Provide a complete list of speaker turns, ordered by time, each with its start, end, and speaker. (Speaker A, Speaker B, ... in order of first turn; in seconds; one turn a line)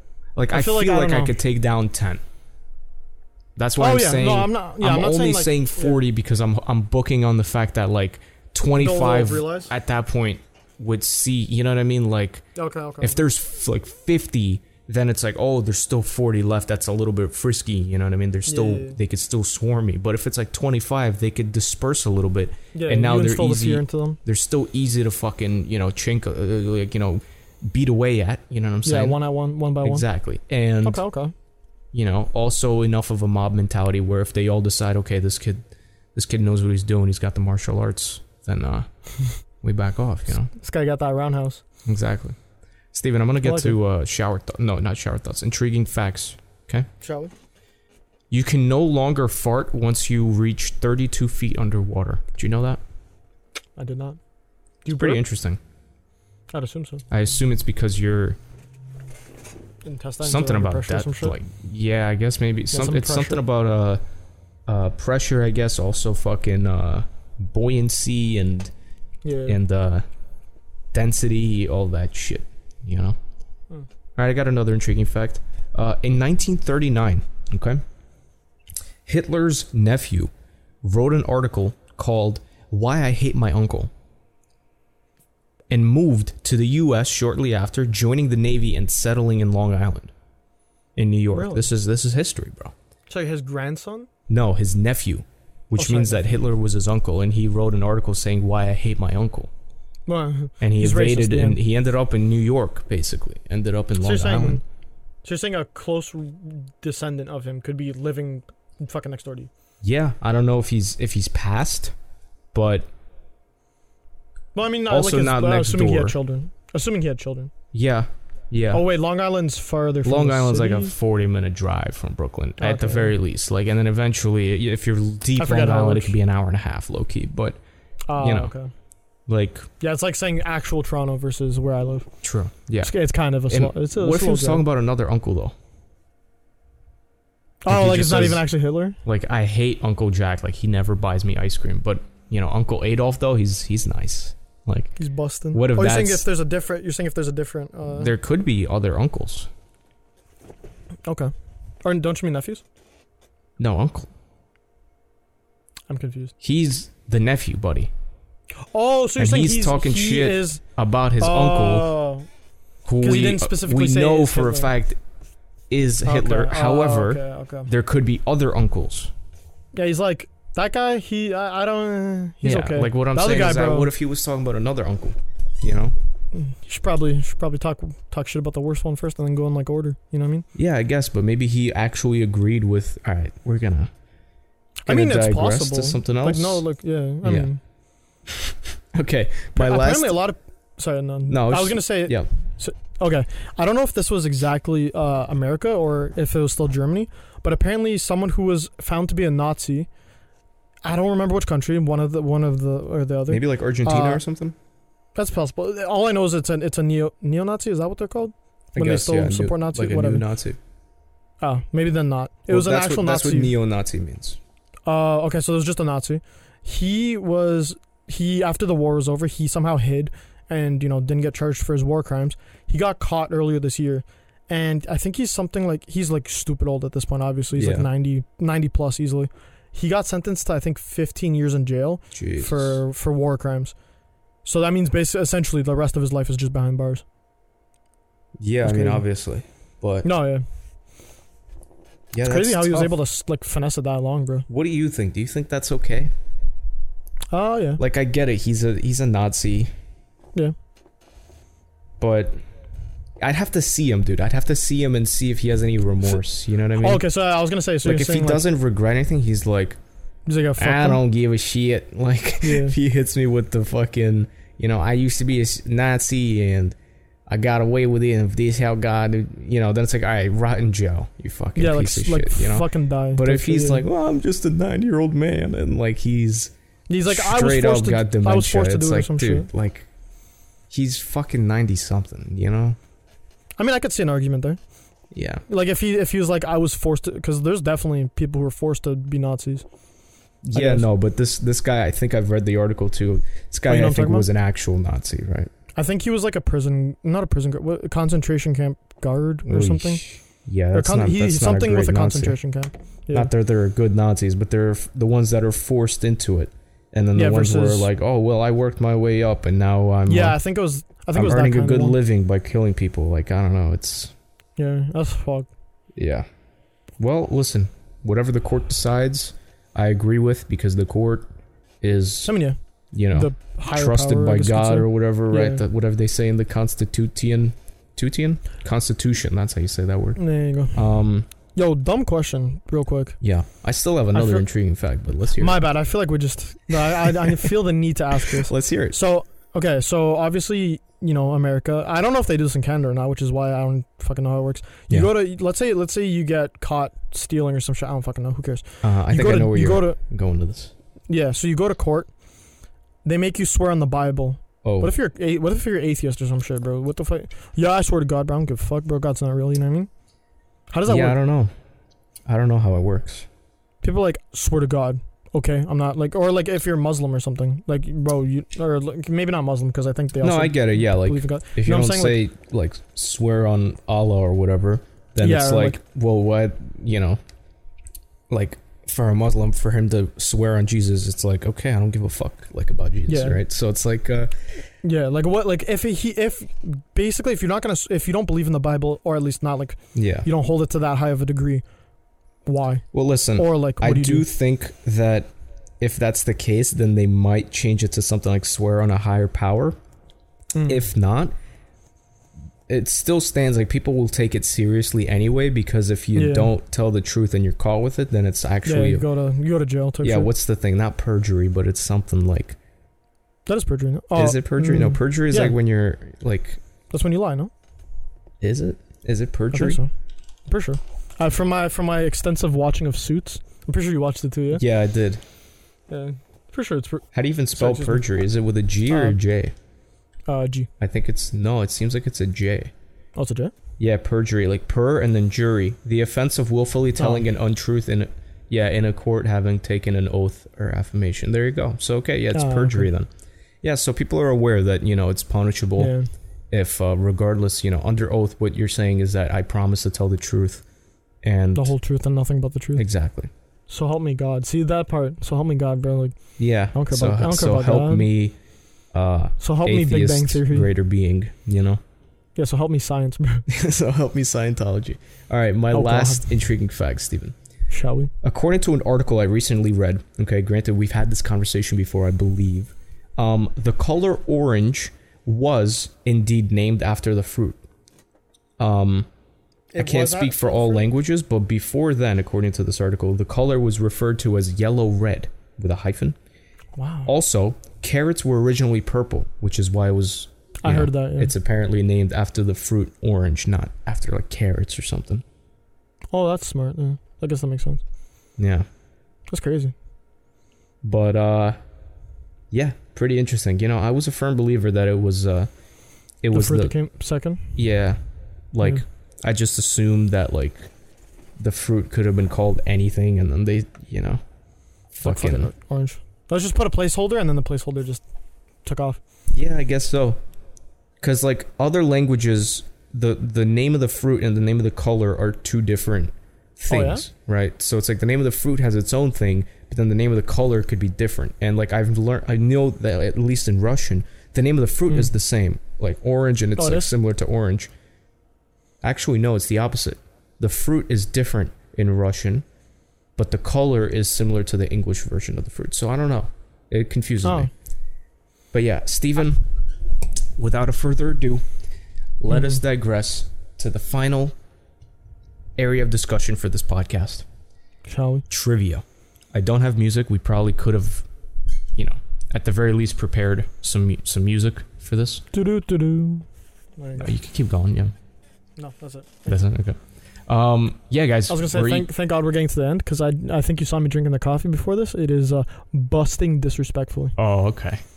Speaker A: 0.3-2.2
Speaker B: 0.5-1.3
Speaker A: 3.5-12.4
Speaker B: 3.8-6.0
Speaker B: 8.8-9.7
Speaker B: 12.5-13.2
Speaker A: 13.0-29.2
Speaker B: 18.4-19.0
Speaker B: 22.7-24.2
Speaker B: 28.8-30.1
Speaker A: 29.8-31.0
Speaker B: 30.8-31.3
Speaker A: 31.9-35.6
Speaker A: 36.1-38.9
Speaker A: 39.6-40.5
Speaker B: 40.5-41.6
Speaker A: 41.8-42.4
Speaker A: 42.9-46.9
Speaker B: 43.4-43.8
Speaker B: 47.0-47.3
Speaker A: 48.3-52.8
Speaker B: 53.8-54.2
Speaker B: 54.8-55.2
Speaker A: 54.9-55.6
Speaker B: 56.5-57.0
Speaker A: 57.1-58.4
Speaker B: 59.8-61.4
Speaker A: 60.2-64.0
Speaker B: 62.7-63.4
Speaker A: 64.7-68.7
Speaker B: 69.2-69.6
Speaker A: 69.5-70.0
Speaker A: 70.9-73.2
Speaker A: 74.2-77.8
Speaker A: 79.0-80.3
Speaker A: 80.8-83.9
Speaker A: 85.7-90.1
Speaker A: 91.0-92.7
Speaker B: 91.3-91.7
Speaker B: 93.1-94.1
Speaker A: 94.3-99.5
Speaker B: 95.8-96.3
Speaker B: 100.1-101.6
Speaker A: 100.6-104.6
Speaker B: 104.0-104.6
Speaker B: 105.2-109.5
Speaker A: 109.8-111.9
Speaker A: 112.5-112.9
Speaker B: 114.5-117.5
Speaker A: 114.9-116.2
Speaker A: 117.7-118.8
Speaker B: 118.7-120.9
Speaker A: 120.0-127.6
Speaker B: 122.6-123.1
Speaker B: 125.4-126.2
Speaker B: 128.1-128.7
Speaker A: 128.2-128.5
Speaker A: 129.3-129.7
Speaker B: 129.8-132.1
Speaker A: 132.2-135.6
Speaker B: 132.8-134.6
Speaker B: 137.6-139.0
Speaker A: 137.7-138.4
Speaker A: 139.0-145.0
Speaker B: 145.0-148.1
Speaker A: 145.5-146.2
Speaker A: 147.9-149.5
Speaker B: 151.1-151.3
Speaker B: 151.8-152.6
Speaker A: 153.6-154.1
Speaker B: 155.9-156.3
Speaker A: 156.4-157.9
Speaker B: 158.7-160.6
Speaker A: 159.2-161.9
Speaker B: 161.2-162.3
Speaker A: 162.8-165.0
Speaker B: 163.0-164.7
Speaker A: 165.7-169.1
Speaker B: 166.0-167.7
Speaker B: 169.7-173.9
Speaker A: 172.4-175.9
Speaker B: 176.3-180.4
Speaker A: 180.5-183.9
Speaker B: 184.8-187.6
Speaker A: 184.9-186.6
Speaker A: 187.2-187.5
Speaker A: 188.3-190.2
Speaker B: 189.6-199.9
Speaker A: 191.3-192.3
Speaker B: 200.8-204.2
Speaker A: 203.3-204.6
Speaker B: 205.1-210.2
Speaker A: 208.8-210.6
Speaker B: 211.4-213.5
Speaker A: 212.5-214.4
Speaker B: 214.8-233.7
Speaker A: 227.6-227.8
Speaker A: 232.1-232.8
Speaker B: 234.4-237.0
Speaker A: 238.4-240.1
Speaker B: 238.6-239.0
Speaker B: 240.0-240.4
Speaker A: 242.1-243.0
Speaker B: 242.2-244.5
Speaker A: 244.5-246.1
Speaker B: 247.3-247.8
Speaker A: 247.8-249.7
Speaker A: 252.0-252.4
Speaker A: 253.2-257.1
Speaker B: 256.8-258.4
Speaker A: 257.8-259.8
Speaker B: 260.3-261.0
Speaker A: 260.6-266.8
Speaker B: 262.4-262.7
Speaker A: 267.3-276.5
Speaker B: 271.6-273.8
Speaker B: 276.9-279.5
Speaker A: 277.0-279.9
Speaker A: 280.7-282.8
Speaker B: 283.6-284.6
Speaker A: 285.1-285.4
Speaker B: 285.5-289.6
Speaker A: 290.4-295.5
Speaker B: 290.5-290.9
Speaker B: 293.7-294.3
Speaker B: 295.8-300.0
Speaker A: 299.4-302.4
Speaker B: 300.7-303.3
Speaker A: 303.1-310.4
Speaker B: 307.1-307.9
Speaker B: 310.1-312.0
Speaker A: 311.1-314.1
Speaker B: 314.6-315.5
Speaker A: 315.9-316.2
Speaker A: 317.0-321.3
Speaker A: 321.8-322.4
Speaker B: 322.2-322.6
Speaker A: 322.9-330.2
Speaker B: 323.1-325.6
Speaker B: 330.1-330.8
Speaker A: 330.7-331.3
Speaker B: 331.5-333.2
Speaker A: 333.2-335.6
Speaker B: 334.1-334.5
Speaker B: 335.4-350.0
Speaker A: 338.4-339.0
Speaker A: 348.8-350.7
Speaker B: 351.1-352.1
Speaker B: 353.0-359.9
Speaker A: 354.6-354.9
Speaker B: 360.7-361.2
Speaker A: 360.9-361.5
Speaker A: 362.2-363.3
Speaker B: 363.8-372.2
Speaker A: 370.2-377.2
Speaker B: 375.2-375.8
Speaker A: 378.3-384.3
Speaker B: 383.1-383.4
Speaker B: 384.8-391.6
Speaker A: 389.9-390.3
Speaker B: 392.4-394.3
Speaker A: 392.9-399.8
Speaker B: 400.5-400.8
Speaker A: 400.7-401.3
Speaker A: 402.7-409.0
Speaker B: 406.1-406.5
Speaker B: 408.6-410.3
Speaker A: 410.0-412.6
Speaker B: 413.5-415.6
Speaker A: 414.1-416.6
Speaker B: 416.9-417.5
Speaker A: 418.4-419.8
Speaker B: 419.5-419.9
Speaker B: 420.5-424.6
Speaker A: 424.5-425.2
Speaker B: 425.9-428.1
Speaker A: 427.1-429.5
Speaker B: 428.9-429.2
Speaker B: 430.3-430.7
Speaker A: 430.8-432.7
Speaker B: 433.1-433.5
Speaker A: 433.8-443.1
Speaker B: 437.0-437.2
Speaker B: 442.3-442.9
Speaker A: 443.6-445.9
Speaker B: 445.8-446.1
Speaker A: 446.5-450.6
Speaker A: 451.2-451.7
Speaker B: 451.5-452.9
Speaker A: 452.8-453.3
Speaker B: 453.7-456.2
Speaker A: 456.4-458.4
Speaker B: 456.7-458.1
Speaker A: 458.9-461.8
Speaker B: 459.4-460.7
Speaker B: 462.4-463.4
Speaker A: 463.5-467.3
Speaker B: 465.7-466.3
Speaker B: 467.7-468.1
Speaker A: 468.2-477.6
Speaker A: 478.6-479.1
Speaker B: 479.7-480.9
Speaker A: 479.8-486.1
Speaker B: 486.8-487.1
Speaker A: 487.0-495.2
Speaker B: 490.6-491.3
Speaker B: 496.1-497.8
Speaker A: 498.4-498.7
Speaker B: 499.3-499.7
Speaker A: 500.8-501.6
Speaker A: 502.5-505.5
Speaker A: 506.2-506.7
Speaker B: 506.3-507.4
Speaker A: 507.5-508.0
Speaker A: 508.5-510.7
Speaker A: 511.4-514.2
Speaker A: 514.9-515.5
Speaker B: 515.0-518.0
Speaker B: 518.6-519.0
Speaker A: 519.3-520.2
Speaker A: 521.0-537.7
Speaker B: 526.7-527.0
Speaker B: 536.6-536.9
Speaker A: 538.8-542.5
Speaker A: 543.1-547.5
Speaker B: 547.2-547.5
Speaker A: 548.5-549.5
Speaker A: 550.4-551.4
Speaker A: 552.2-554.4
Speaker B: 552.3-552.6
Speaker A: 555.6-557.2
Speaker B: 557.9-558.2
Speaker A: 558.3-561.0
Speaker A: 561.8-565.2
Speaker B: 565.3-566.2
Speaker B: 566.8-567.1
Speaker A: 567.0-567.9
Speaker B: 568.6-569.4
Speaker A: 569.3-571.9
Speaker B: 571.3-577.1
Speaker A: 577.1-577.8